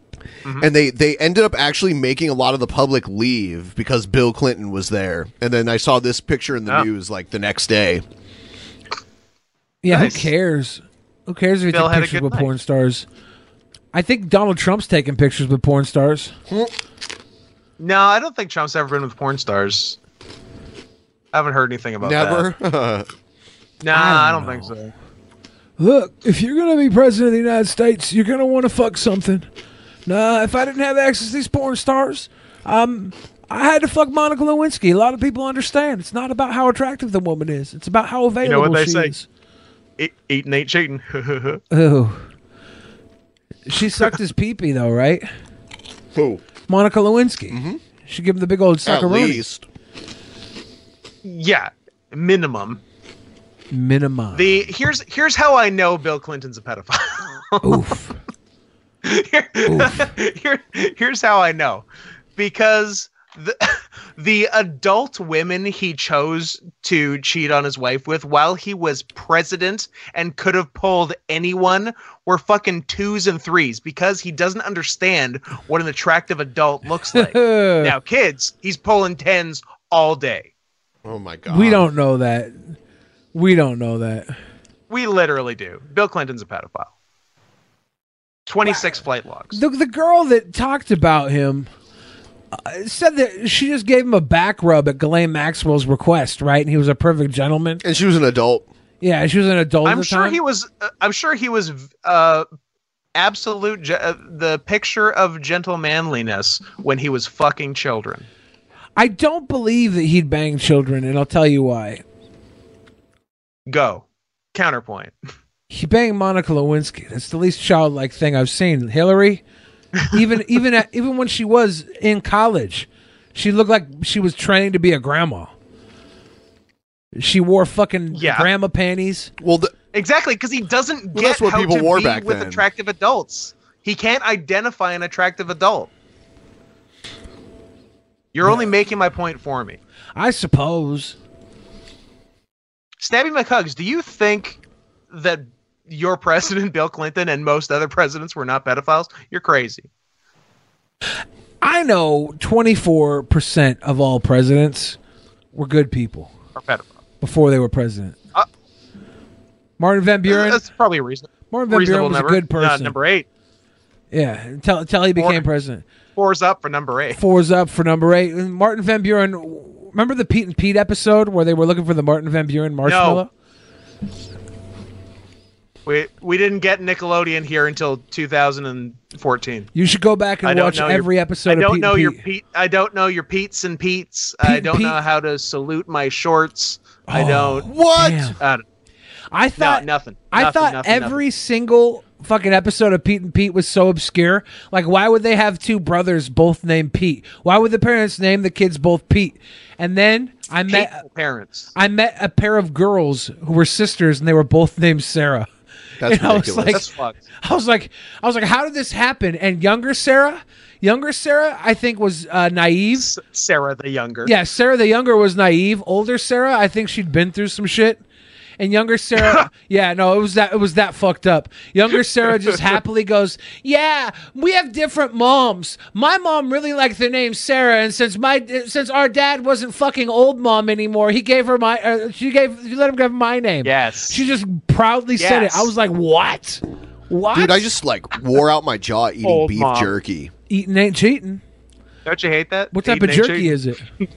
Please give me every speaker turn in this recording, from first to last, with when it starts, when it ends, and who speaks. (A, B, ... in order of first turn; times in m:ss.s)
0:00.6-0:08.0 A
0:09.8-0:13.0 B
0:09.9-0:10.3 C
0:11.7-0:12.5 C
0:13.9-0:16.3 B
0:17.8-0:20.0 C
0:21.3-0:22.5 C
0:22.0-0:23.1 A
0:23.8-0:24.9 C
0:23.9-0:24.7 B
0:25.8-0:29.4 B
0:30.0-0:39.2 B
0:38.4-0:39.1 C
0:40.0-0:41.6 C
0:41.7-0:42.2 B
0:43.7-0:45.3 B
0:46.1-0:46.4 A
0:46.7-0:49.4 B
0:47.5-0:47.8 A
0:48.8-0:49.6 A
0:51.2-0:52.8 C
0:53.7-0:54.6 B
0:54.3-0:57.8 C
0:57.6-0:58.2 B
0:59.0-1:01.8 C
0:59.7-1:00.1 B
1:02.4-1:20.5 C
1:17.1-1:17.9 B
1:21.0-1:21.8 A
1:21.5-1:22.8 B
1:23.3-1:24.4 B
1:24.9-1:26.9 C
1:28.5-1:29.6 C
1:28.6-1:29.0 B
1:29.5-1:31.7 B
1:32.5-1:37.8 B
1:37.8-1:38.6 A
1:39.0-1:40.4 B
1:39.8-1:42.5 C
1:43.2-1:48.3 C
1:49.0-1:52.0 B
1:53.7-1:55.1 C
1:55.7-1:59.4 B
2:00.1-2:05.5 B
2:07.2-2:09.3 B
2:08.1-2:08.5 C
2:09.4-2:09.7 A
2:09.9-2:15.9 C
2:11.1-2:12.6 A
2:18.3-2:19.8 C
2:20.2-2:21.2 B
2:23.0-2:24.6 C
2:25.1-2:29.9 C
2:31.6-2:35.0 B
2:35.5-2:36.3 B
2:36.6-2:36.9 C
2:37.2-2:38.2 B
2:39.8-2:40.6 B
2:40.3-2:43.2 C
2:41.5-2:42.9 B
2:44.1-2:45.8 B
2:45.2-2:45.4 C
2:46.2-2:47.2 C
2:47.1-2:53.3 B
2:52.8-2:53.2 C
2:55.8-2:59.7 C
2:59.7-3:02.2 B
3:00.4-3:07.8 C
3:04.4-3:05.0 B
3:07.1-3:08.4 B
3:07.7-3:08.3 A
3:08.4-3:08.6 C
3:09.3-3:21.0 B
3:09.6-3:11.2 C
3:20.7-3:21.7 C
3:21.7-3:25.5 B
3:26.0-3:26.8 A
3:26.0-3:26.8 B
3:26.7-3:27.2 C
3:27.4-3:33.1 B
3:33.0-3:34.3 C
3:34.2-3:38.0 B
3:38.6-3:57.7 B
3:53.6-3:54.2 C
3:55.2-3:55.7 C
3:57.3-4:00.3 A
3:59.2-3:59.9 C
4:00.5-4:01.4 B
4:02.0-4:03.6 C
4:02.7-4:03.8 B